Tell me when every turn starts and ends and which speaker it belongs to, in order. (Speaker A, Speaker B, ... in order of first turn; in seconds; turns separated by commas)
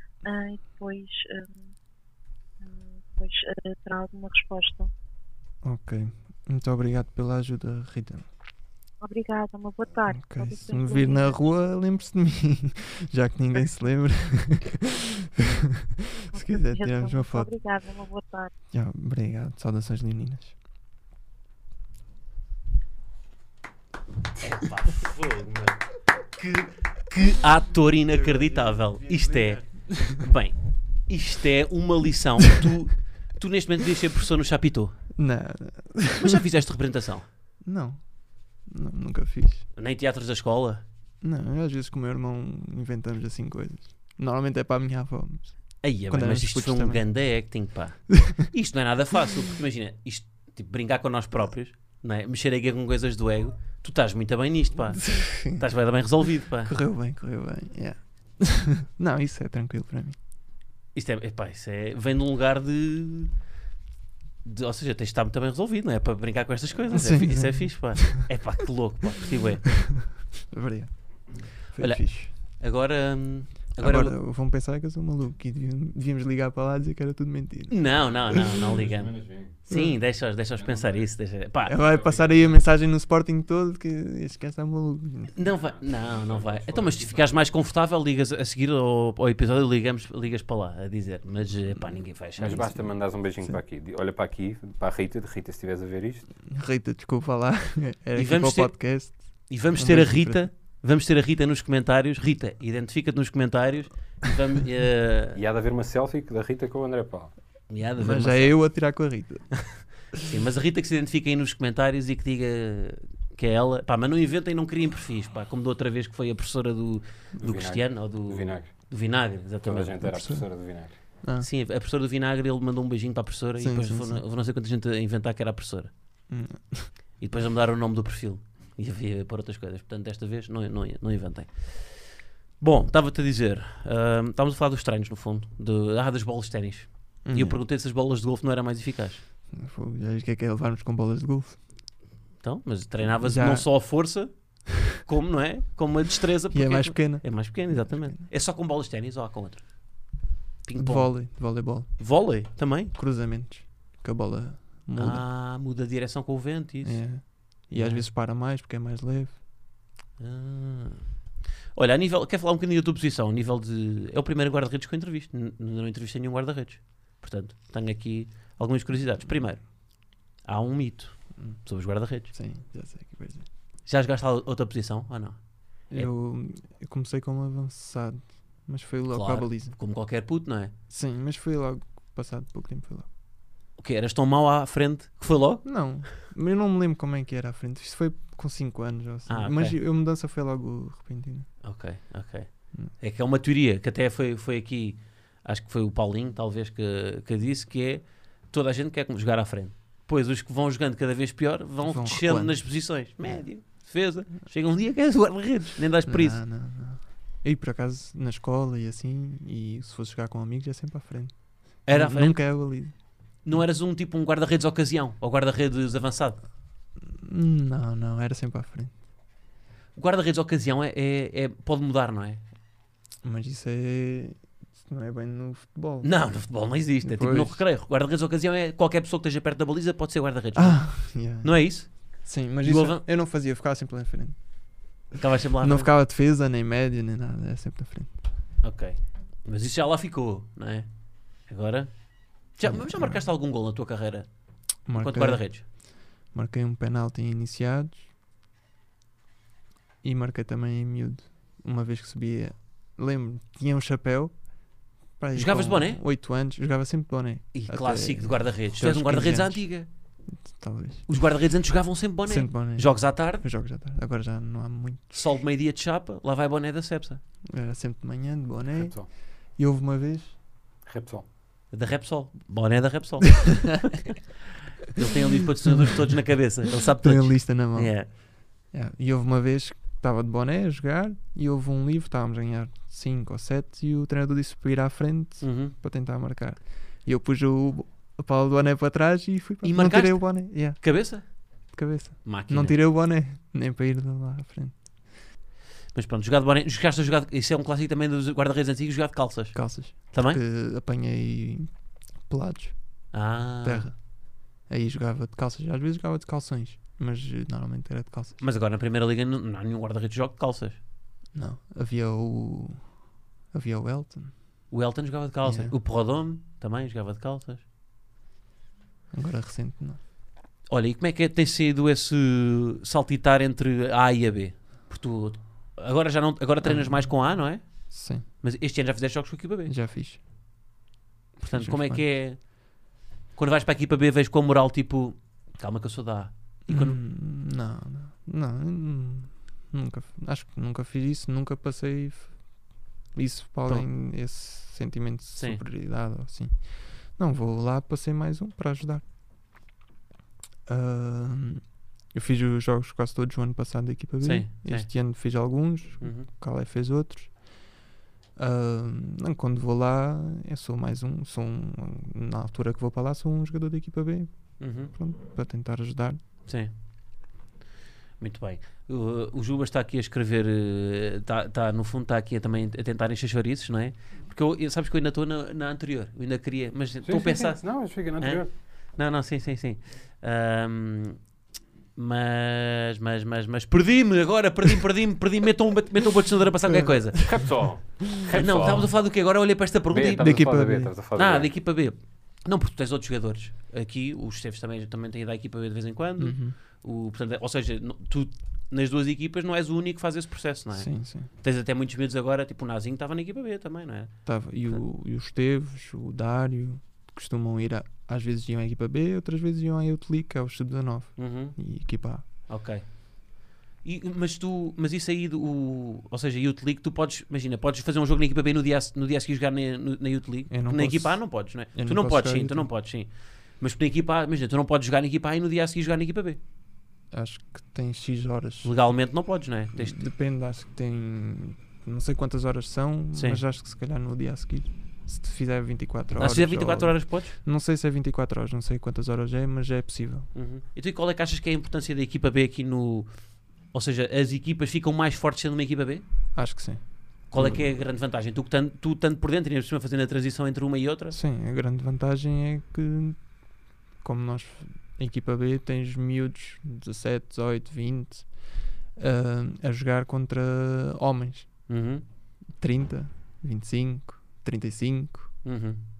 Speaker A: 0.2-1.7, Speaker A: 2.6-4.9, Speaker B: 5.6-8.3, Speaker A: 9.0-11.4, Speaker B: 10.1-17.5, Speaker A: 16.3-18.5, Speaker B: 18.7-20.6, Speaker C: 24.4-25.8, Speaker C: 26.4-30.6, Speaker B: 28.1-30.2, Speaker C: 31.1-35.0, Speaker B: 35.2-36.4, Speaker C: 36.2-37.3, Speaker B: 37.6-38.0, Speaker B: 38.7-39.7, Speaker C: 39.8-40.8, Speaker B: 41.2-47.0, Speaker C: 45.8-56.7, Speaker B: 54.9-55.7, Speaker B: 56.6-60.2, Speaker C: 61.0-63.3, Speaker C: 64.5-69.8, Speaker B: 66.9-68.2, Speaker B: 70.5-70.9, Speaker B: 71.7-72.3, Speaker C: 71.8-74.2, Speaker B: 73.8-77.8, Speaker C: 77.7-81.8, Speaker D: 78.7-79.6, Speaker B: 79.7-80.0, Speaker D: 80.6-81.1, Speaker B: 81.7-85.3, Speaker D: 81.8-82.6, Speaker C: 85.4-92.8, Speaker D: 85.5-87.4, Speaker D: 92.4-96.3, Speaker B: 96.5-100.5, Speaker C: 98.2-98.8, Speaker C: 99.5-105.4, Speaker D: 105.3-107.3, Speaker C: 107.7-108.6, Speaker B: 108.0-109.7, Speaker C: 110.2-120.0, Speaker D: 117.4-118.7, Speaker D: 119.6-120.9, Speaker B: 120.0-120.5, Speaker B: 121.2-121.5, Speaker C: 121.4-125.9, Speaker B: 123.6-124.2, Speaker B: 126.3-126.9, Speaker C: 127.2-139.2, Speaker B: 137.2-137.6, Speaker B: 139.5-141.6, Speaker C: 142.4-144.3, Speaker B: 143.1-143.7, Speaker C: 144.8-149.6, Speaker B: 146.5-148.3, Speaker C: 150.6-151.2, Speaker B: 150.8-151.9, Speaker C: 152.0-152.9, Speaker B: 152.9-155.2, Speaker C: 155.0-157.0, Speaker B: 156.8-159.4, Speaker C: 157.7-158.1, Speaker C: 160.2-161.1, Speaker C: 161.8-169.6, Speaker C: 170.4-172.3, Speaker B: 172.3-173.5, Speaker C: 173.9-175.4, Speaker B: 175.9-179.8, Speaker C: 179.1-180.7, Speaker B: 180.9-183.1, Speaker C: 183.8-185.7, Speaker B: 185.6-191.5, Speaker C: 189.3-189.8, Speaker C: 191.6-206.4, Speaker B: 201.8-203.5, Speaker B: 206.0-212.9, Speaker C: 211.9-212.4, Speaker C: 213.4-216.4, Speaker B: 217.0-219.0, Speaker C: 220.0-222.4, Speaker B: 223.2-226.1, Speaker C: 226.0-232.1, Speaker B: 227.0-227.6, Speaker B: 230.6-234.4, Speaker C: 232.6-233.0, Speaker C: 235.2-235.9, Speaker B: 235.6-238.2, Speaker C: 238.6-240.9, Speaker C: 241.5-241.9, Speaker C: 242.6-244.3, Speaker B: 242.6-243.3, Speaker B: 244.9-245.7, Speaker C: 244.9-245.6, Speaker B: 246.3-248.1, Speaker B: 250.0-254.3, Speaker B: 255.2-259.6, Speaker C: 255.3-256.0, Speaker C: 257.5-259.9, Speaker B: 260.5-261.1, Speaker C: 261.1-263.5, Speaker B: 262.3-265.2, Speaker C: 265.1-267.2, Speaker B: 267.5-270.4, Speaker D: 268.8-269.1, Speaker D: 270.9-271.2, Speaker C: 271.7-274.1, Speaker C: 274.9-278.1, Speaker B: 275.7-276.1, Speaker B: 276.9-277.9, Speaker B: 278.7-290.8, Speaker C: 285.4-285.7, Speaker C: 289.6-291.2, Speaker B: 291.7-294.8, Speaker C: 292.2-292.8, Speaker C: 295.9-299.6, Speaker B: 299.6-301.7, Speaker C: 300.1-300.4, Speaker B: 302.3-302.8, Speaker C: 303.1-303.9, Speaker B: 303.6-304.0, Speaker B: 304.7-308.4, Speaker C: 308.4-310.8, Speaker B: 311.3-312.9, Speaker B: 313.5-314.3, Speaker C: 314.7-317.6, Speaker B: 315.4-315.8, Speaker B: 319.1-320.0, Speaker C: 320.7-327.6, Speaker B: 326.6-327.1, Speaker B: 327.9-328.2, Speaker C: 328.4-329.8, Speaker B: 329.7-330.2, Speaker C: 331.4-332.4, Speaker B: 331.5-332.1, Speaker C: 333.4-337.0, Speaker B: 336.7-342.4, Speaker B: 343.1-349.0, Speaker C: 345.4-345.6, Speaker B: 350.7-357.3, Speaker C: 354.2-354.9, Speaker C: 356.0-356.3, Speaker B: 358.4-364.3, Speaker C: 364.6-364.9, Speaker B: 364.9-366.2, Speaker C: 366.5-366.7, Speaker C: 368.2-381.2, Speaker D: 377.1-378.5, Speaker C: 382.0-387.5, Speaker B: 386.6-387.5, Speaker D: 387.2-389.0, Speaker C: 388.3-390.5, Speaker D: 389.9-391.5, Speaker B: 390.2-390.9, Speaker C: 391.1-404.1, Speaker B: 396.2-396.6, Speaker B: 400.7-401.3, Speaker B: 404.2-412.2, Speaker C: 411.2-411.6, Speaker C: 412.5-412.9, Speaker C: 413.8-426.4, Speaker B: 420.5-422.7, Speaker B: 427.1-428.7, Speaker C: 428.6-430.0, Speaker B: 429.8-440.3, Speaker C: 433.1-433.4, Speaker C: 436.1-437.4, Speaker C: 440.3-443.1, Speaker C: 443.7-446.0, Speaker B: 446.4-447.7, Speaker C: 447.3-451.2, Speaker B: 451.1-453.2, Speaker B: 454.0-458.3, Speaker B: 458.9-461.5, Speaker C: 461.7-462.0, Speaker B: 462.6-465.4, Speaker C: 465.4-465.8